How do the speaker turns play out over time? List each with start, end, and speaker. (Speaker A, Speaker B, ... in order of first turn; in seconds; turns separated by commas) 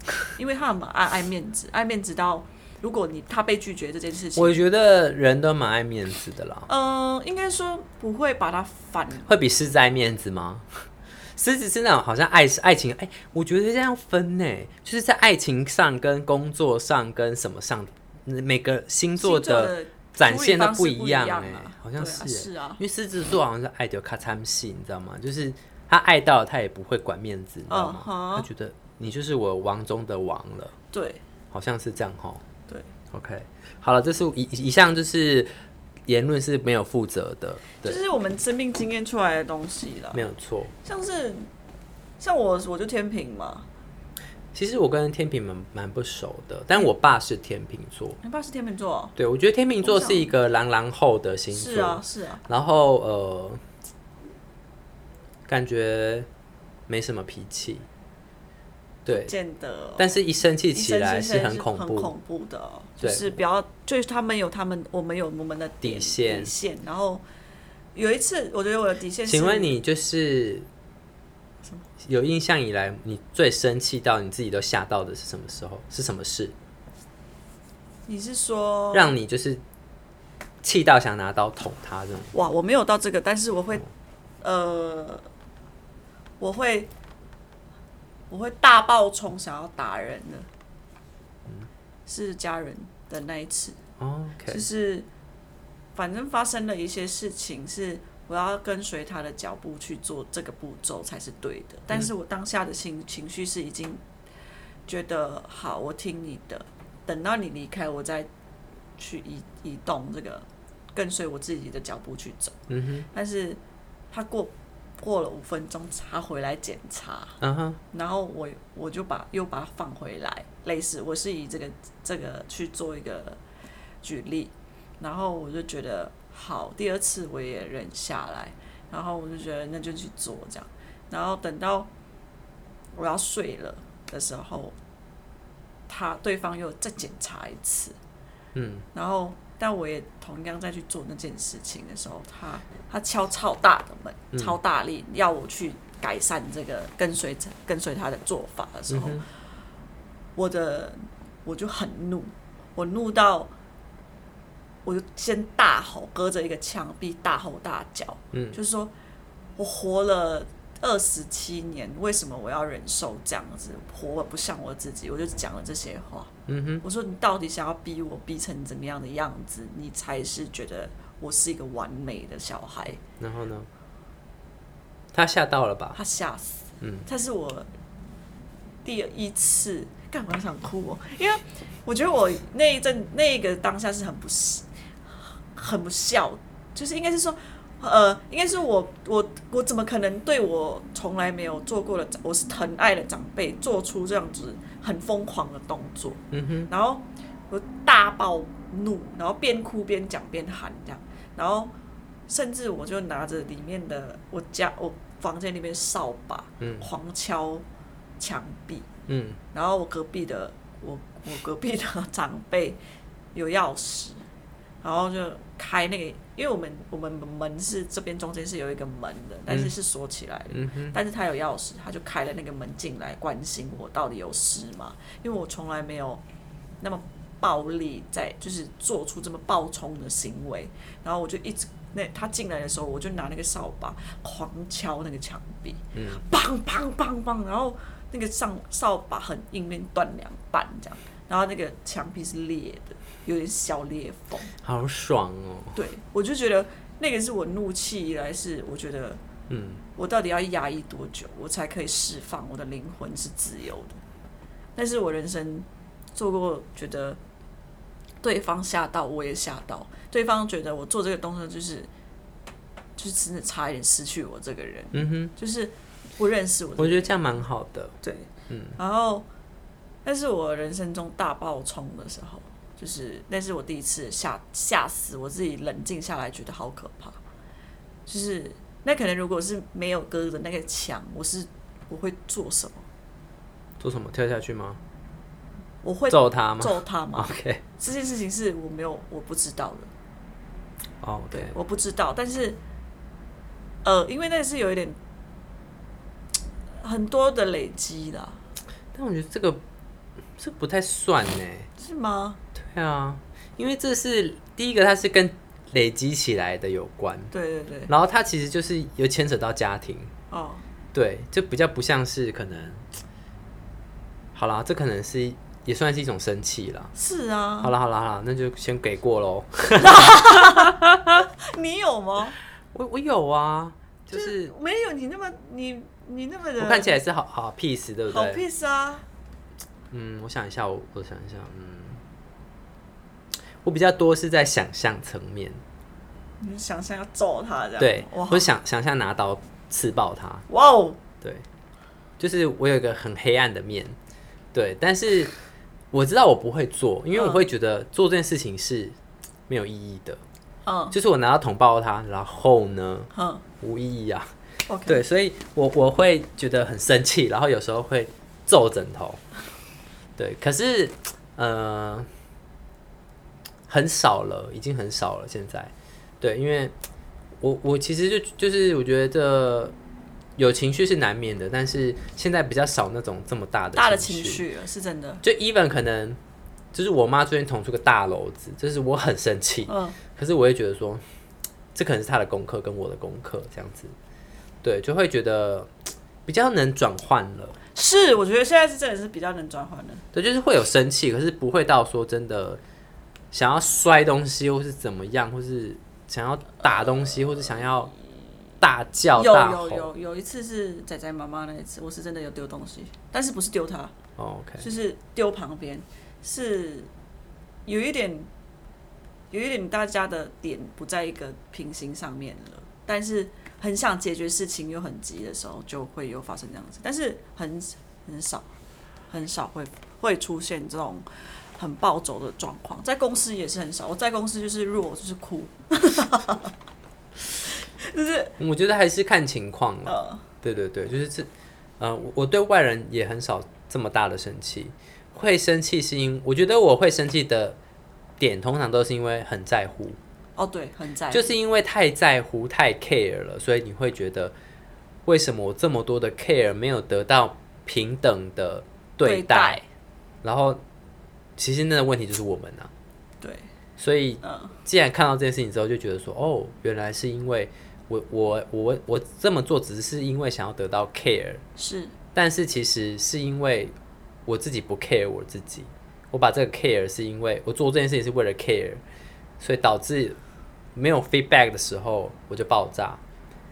Speaker A: 0.3-4.6, Speaker B: 4.3-6.7, Speaker A: 6.7-9.3, Speaker B: 9.3-10.7, Speaker B: 11.4-30.7, Speaker A: 19.2-22.8, Speaker A: 27.7-28.5, Speaker A: 30.9-31.2, Speaker B: 31.5-32.4, Speaker B: 33.1-35.5, Speaker B: 36.1-38.0, Speaker A: 37.8-40.3, Speaker B: 40.1-40.7, Speaker A: 40.8-41.5, Speaker A: 42.2-43.7, Speaker B: 44.5-48.2, Speaker A: 48.2-49.1, Speaker B: 49.2-53.6, Speaker A: 49.8-50.3, Speaker A: 51.5-52.5, Speaker B: 55.5-56.3, Speaker B: 56.9-57.9, Speaker B: 59.0-59.3, Speaker A: 59.1-60.2, Speaker B: 60.0-62.1, Speaker A: 60.7-67.2, Speaker B: 63.0-63.4, Speaker B: 65.8-66.5, Speaker A: 68.0-69.8, Speaker B: 69.3-70.7, Speaker B: 72.0-76.5, Speaker A: 78.1-79.2, Speaker B: 78.9-79.6, Speaker B: 80.6-82.3, Speaker A: 82.3-83.9, Speaker A: 84.4-85.3, Speaker A: 86.4-86.9, Speaker A: 88.3-90.5, Speaker A: 92.1-93.8, Speaker B: 94.0-94.7, Speaker A: 94.5-95.1, Speaker A: 96.0-104.0, Speaker A: 104.9-108.3, Speaker A: 109.0-112.6, Speaker B: 112.7-113.1, Speaker A: 113.1-113.6, Speaker A: 114.1-117.4, Speaker B: 117.4-117.8, Speaker A: 117.9-123.4, Speaker A: 124.0-131.9, Speaker A: 132.9-134.8, Speaker A: 135.9-138.0, Speaker B: 138.6-138.9, Speaker A: 138.9-149.3, Speaker B: 148.9-149.2, Speaker A: 150.4-153.5, Speaker A: 154.8-158.9, Speaker A: 159.6-173.0, Speaker B: 166.5-166.8, Speaker B: 173.2-173.7, Speaker B: 175.1-176.0, Speaker A: 175.9-177.7, Speaker B: 176.8-177.1, Speaker A: 178.8-201.7, Speaker B: 196.3-196.7, Speaker A: 202.3-207.7, Speaker B: 206.6-206.9, Speaker A: 208.2-208.9, Speaker B: 209.1-209.4, Speaker A: 209.5-212.8, Speaker A: 213.3-214.3, Speaker A: 214.8-226.2, Speaker B: 220.5-221.0, Speaker A: 226.8-244.5, Speaker B: 235.9-236.2, Speaker B: 244.6-245.8, Speaker A: 245.8-249.2, Speaker B: 249.5-249.8, Speaker A: 250.0-254.0, Speaker A: 254.8-257.2, Speaker A: 258.2-261.9, Speaker A: 263.0-267.2, Speaker B: 264.9-265.3, Speaker B: 266.8-267.9, Speaker A: 268.0-269.3, Speaker B: 268.5-268.8, Speaker A: 270.1-277.2, Speaker A: 278.1-282.9, Speaker B: 283.8-284.8, Speaker A: 285.8-289.9, Speaker B: 286.1-287.6, Speaker B: 291.0-291.6, Speaker A: 291.3-292.6, Speaker A: 293.8-295.0, Speaker A: 296.8-298.4, Speaker B: 298.9-299.6, Speaker B: 300.4-301.7, Speaker A: 301.8-302.4, Speaker B: 302.6-307.3, Speaker A: 307.3-307.9, Speaker B: 307.9-310.1, Speaker A: 310.3-310.6, Speaker B: 310.9-312.9, Speaker B: 314.3-316.9, Speaker A: 316.9-317.7, Speaker B: 317.6-321.3, Speaker A: 319.8-322.4, Speaker B: 322.7-324.5, Speaker A: 324.1-326.9, Speaker B: 326.6-328.4, Speaker A: 328.1-329.1, Speaker B: 329.9-332.0, Speaker B: 333.6-335.6, Speaker A: 336.4-338.5, Speaker B: 337.8-340.5, Speaker A: 340.5-341.0, Speaker B: 341.2-341.5, Speaker B: 342.2-344.0, Speaker B: 344.5-345.3, Speaker B: 345.9-349.0, Speaker A: 347.1-347.4, Speaker B: 349.5-350.2, Speaker A: 350.6-350.9, Speaker B: 350.9-353.1, Speaker A: 353.1-353.4, Speaker B: 353.6-354.3, Speaker A: 354.7-355.0, Speaker B: 354.9-359.2, Speaker B: 360.2-362.1, Speaker B: 363.7-366.7, Speaker B: 367.4-369.8, Speaker B: 370.4-374.4, Speaker A: 373.7-375.2, Speaker B: 375.2-376.2, Speaker B: 376.7-381.0, Speaker A: 379.7-380.0, Speaker B: 381.7-383.9, Speaker B: 384.6-385.7, Speaker B: 386.3-387.6, Speaker A: 387.8-390.0, Speaker B: 390.1-392.6, Speaker B: 393.3-397.9, Speaker B: 398.6-399.9, Speaker A: 399.1-403.9, Speaker B: 404.2-404.6, Speaker A: 404.6-406.9, Speaker A: 407.7-408.3, Speaker A: 409.3-418.5, Speaker A: 419.1-421.1, Speaker A: 421.6-426.5, Speaker A: 427.4-428.3, Speaker B: 428.4-437.6, Speaker A: 429.9-430.2, Speaker B: 438.2-440.0, Speaker A: 440.4-441.4, Speaker B: 441.1-444.3, Speaker B: 445.1-449.6, Speaker A: 449.0-449.6, Speaker B: 450.2-450.6, Speaker B: 451.4-452.7, Speaker A: 453.2-453.5, Speaker B: 453.8-461.4, Speaker A: 454.2-454.6, Speaker A: 461.6-461.9, Speaker B: 462.1-463.7, Speaker B: 464.3-468.8, Speaker B: 469.4-470.2, Speaker B: 470.8-473.0